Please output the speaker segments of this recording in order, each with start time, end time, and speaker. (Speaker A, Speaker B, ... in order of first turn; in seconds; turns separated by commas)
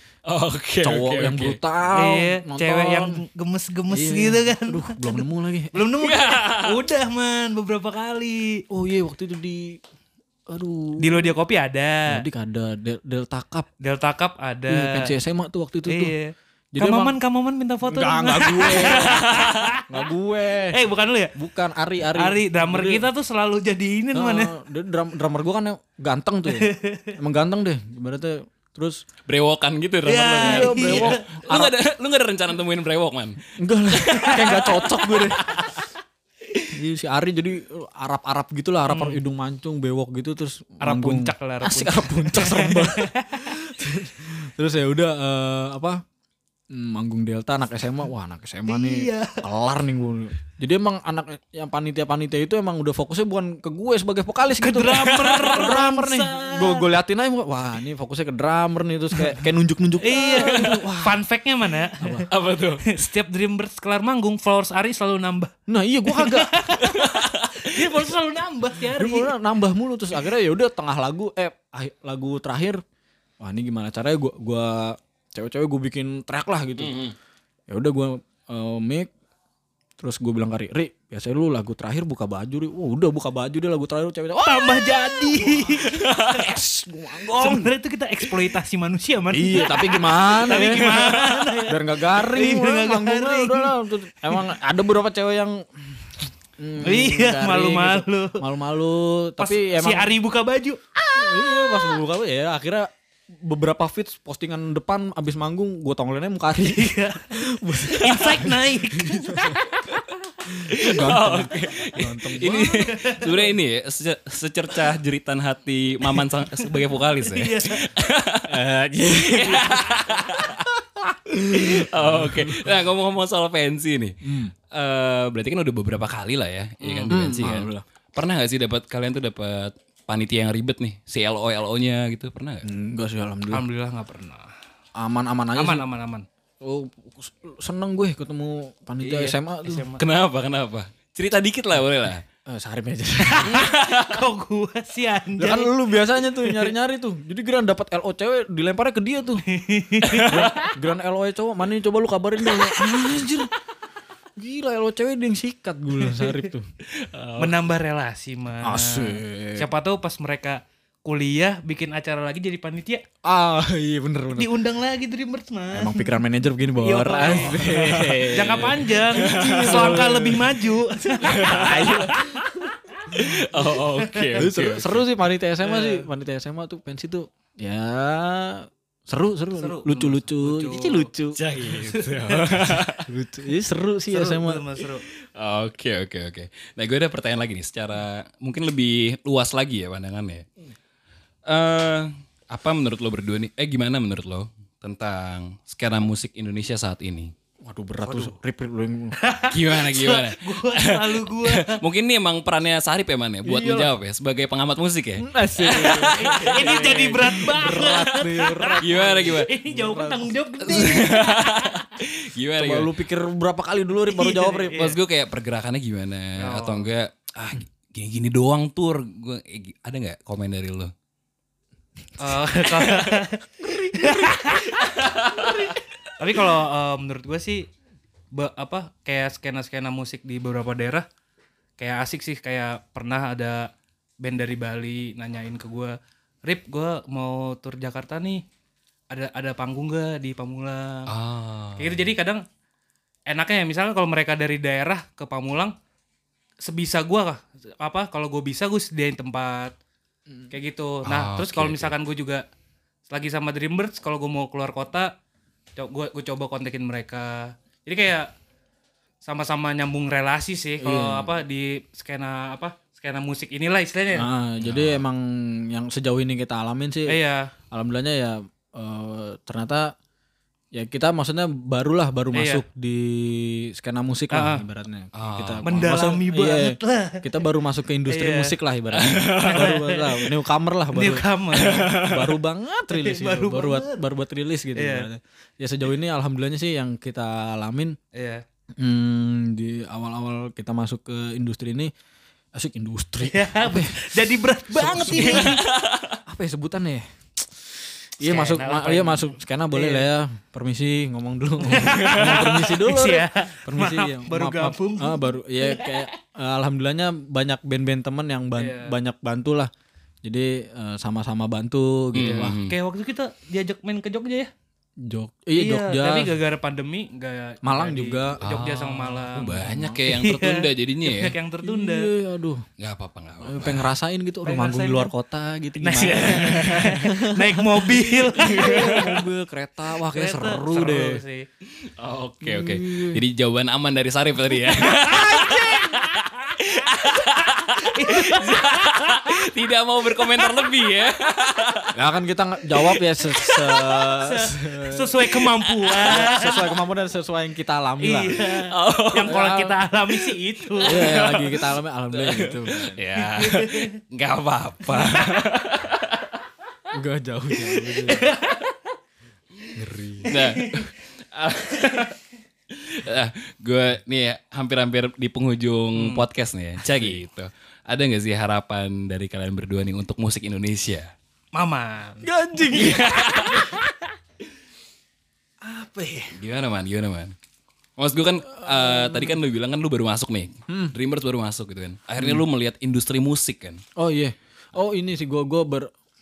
Speaker A: 0.3-1.6, Speaker B: 0.8-3.2, Speaker C: 1.9-8.6, Speaker B: 3.9-5.8, Speaker A: 6.0-6.8, Speaker B: 8.7-9.8, Speaker B: 10.5-11.3, Speaker C: 11.0-12.2, Speaker B: 12.1-13.7, Speaker C: 13.8-15.1, Speaker B: 14.7-16.1, Speaker C: 15.9-20.0, Speaker B: 16.7-17.1, Speaker B: 17.9-20.8, Speaker A: 19.1-19.5, Speaker C: 20.7-21.3, Speaker B: 21.3-23.1, Speaker C: 22.1-24.5, Speaker B: 24.1-29.0, Speaker C: 26.5-27.1, Speaker A: 29.3-33.4, Speaker C: 30.0-31.2, Speaker B: 30.4-31.7, Speaker B: 33.6-35.7, Speaker A: 33.9-35.0, Speaker C: 34.2-34.6, Speaker B: 36.7-46.0, Speaker C: 38.9-39.2, Speaker C: 40.8-43.5, Speaker B: 46.7-61.2, Speaker C: 48.7-49.4, Speaker C: 54.6-56.9, Speaker C: 60.0-62.3, Speaker A: 60.4-60.7, Speaker B: 62.0-62.3, Speaker A: 62.3-62.8, Speaker C: 62.9-65.5, Speaker B: 65.7-66.6, Speaker C: 66.1-69.3, Speaker A: 66.8-67.7, Speaker B: 68.8-72.8, Speaker B: 73.4-77.0, Speaker A: 76.8-77.1, Speaker B: 77.7-79.1, Speaker B: 80.0-87.7, Speaker C: 84.4-86.6, Speaker A: 85.9-86.4, Speaker C: 87.3-93.7, Speaker B: 89.3-100.1, Speaker A: 90.7-91.4, Speaker C: 96.8-98.4, Speaker C: 99.4-101.8, Speaker B: 101.0-109.6, Speaker C: 106.6-109.9, Speaker B: 110.4-112.8, Speaker A: 110.7-118.5, Speaker C: 112.5-113.5, Speaker C: 117.2-117.9, Speaker B: 118.5-122.7, Speaker A: 119.3-120.7, Speaker A: 121.5-124.1, Speaker B: 124.2-124.5, Speaker A: 124.7-132.6, Speaker C: 126.8-127.2, Speaker B: 127.1-127.8, Speaker B: 132.6-133.6, Speaker C: 133.5-134.5, Speaker B: 134.9-135.8, Speaker C: 135.5-136.2, Speaker B: 136.6-139.9, Speaker C: 139.0-140.0, Speaker A: 140.0-142.2, Speaker B: 142.4-143.7, Speaker C: 143.3-145.7, Speaker A: 143.4-144.2, Speaker B: 145.4-149.4, Speaker C: 146.3-146.7, Speaker C: 149.4-150.7, Speaker A: 150.0-150.5, Speaker B: 150.2-153.5, Speaker C: 152.5-152.9, Speaker B: 154.4-156.7, Speaker C: 156.0-156.5, Speaker A: 157.0-157.5, Speaker C: 157.4-163.0, Speaker B: 158.6-159.7, Speaker B: 163.2-164.5, Speaker C: 164.3-166.2, Speaker B: 165.7-170.7, Speaker C: 166.8-167.6, Speaker A: 167.4-170.1, Speaker C: 168.3-173.0, Speaker A: 171.2-172.4, Speaker B: 171.2-172.2, Speaker A: 173.1-175.0, Speaker B: 173.1-173.4, Speaker C: 174.0-174.4, Speaker B: 174.4-181.4, Speaker C: 175.6-176.1, Speaker C: 179.6-181.1, Speaker A: 181.3-183.1, Speaker C: 181.7-182.5, Speaker B: 183.1-184.7, Speaker C: 184.1-185.0, Speaker A: 185.3-190.4, Speaker A: 191.4-197.3, Speaker B: 197.6-199.2, Speaker C: 198.1-198.3, Speaker C: 199.2-201.8, Speaker A: 199.5-207.5, Speaker B: 203.4-203.9, Speaker B: 205.2-210.3, Speaker C: 205.6-211.8, Speaker A: 208.8-209.5, Speaker A: 210.6-212.9, Speaker B: 212.6-214.8, Speaker C: 214.1-215.0, Speaker A: 214.8-220.9, Speaker C: 216.4-216.9, Speaker C: 222.2-227.7, Speaker A: 224.8-225.7, Speaker C: 228.3-231.0, Speaker C: 231.8-233.7, Speaker C: 234.2-238.4, Speaker C: 239.1-241.1, Speaker A: 241.1-242.1, Speaker C: 241.8-242.4, Speaker C: 243.3-245.7, Speaker C: 246.6-249.8, Speaker C: 250.5-252.4, Speaker A: 251.1-251.9, Speaker C: 253.1-255.1, Speaker C: 255.8-258.3, Speaker C: 259.2-264.3, Speaker B: 260.8-261.4, Speaker B: 264.1-267.2, Speaker A: 264.6-265.0, Speaker C: 267.1-267.5, Speaker B: 267.7-269.9, Speaker B: 270.7-288.0, Speaker C: 272.3-272.6, Speaker C: 274.3-274.6, Speaker A: 275.1-275.7, Speaker C: 275.6-277.4, Speaker C: 278.1-278.5, Speaker A: 278.9-279.7, Speaker C: 279.4-280.2, Speaker C: 280.9-282.1, Speaker A: 281.6-282.1, Speaker C: 282.9-284.0, Speaker C: 284.7-285.1, Speaker C: 288.1-288.4, Speaker B: 288.8-291.9, Speaker B: 292.5-295.7, Speaker C: 293.2-295.6, Speaker A: 295.1-296.2, Speaker B: 296.2-309.7, Speaker C: 298.2-300.1, Speaker C: 301.6-306.1, Speaker A: 301.9-302.3, Speaker C: 308.6-308.9, Speaker B: 310.2-312.6, Speaker A: 312.1-312.8, Speaker C: 312.2-314.5, Speaker B: 315.0-316.3, Speaker C: 315.6-322.1, Speaker B: 317.6-318.4, Speaker A: 318.4-321.3, Speaker B: 319.4-320.0, Speaker B: 321.6-322.6, Speaker A: 322.8-323.9, Speaker B: 323.4-331.2, Speaker C: 324.4-325.1, Speaker C: 325.8-329.1, Speaker A: 326.3-326.7, Speaker A: 328.4-329.0, Speaker C: 330.1-331.5, Speaker A: 332.0-341.9, Speaker B: 332.4-333.2, Speaker C: 334.7-336.3, Speaker C: 336.8-339.4, Speaker C: 340.4-340.7, Speaker B: 341.9-345.4, Speaker C: 343.6-346.7, Speaker A: 345.6-346.4, Speaker B: 346.0-348.6, Speaker C: 348.0-351.2, Speaker A: 348.6-349.4, Speaker B: 349.2-349.8, Speaker A: 350.1-356.4, Speaker B: 350.8-353.0, Speaker C: 353.2-353.9, Speaker B: 356.9-358.3, Speaker C: 358.0-358.6, Speaker B: 359.7-360.4, Speaker A: 360.2-362.1, Speaker C: 360.6-360.9, Speaker A: 362.7-371.1, Speaker C: 365.9-366.2, Speaker B: 366.8-367.2, Speaker C: 371.5-373.8, Speaker B: 372.2-373.8, Speaker A: 372.8-373.6, Speaker B: 375.6-376.4, Speaker A: 376.3-377.3, Speaker A: 378.0-383.8, Speaker B: 378.5-379.4, Speaker B: 380.7-380.9, Speaker B: 383.9-385.9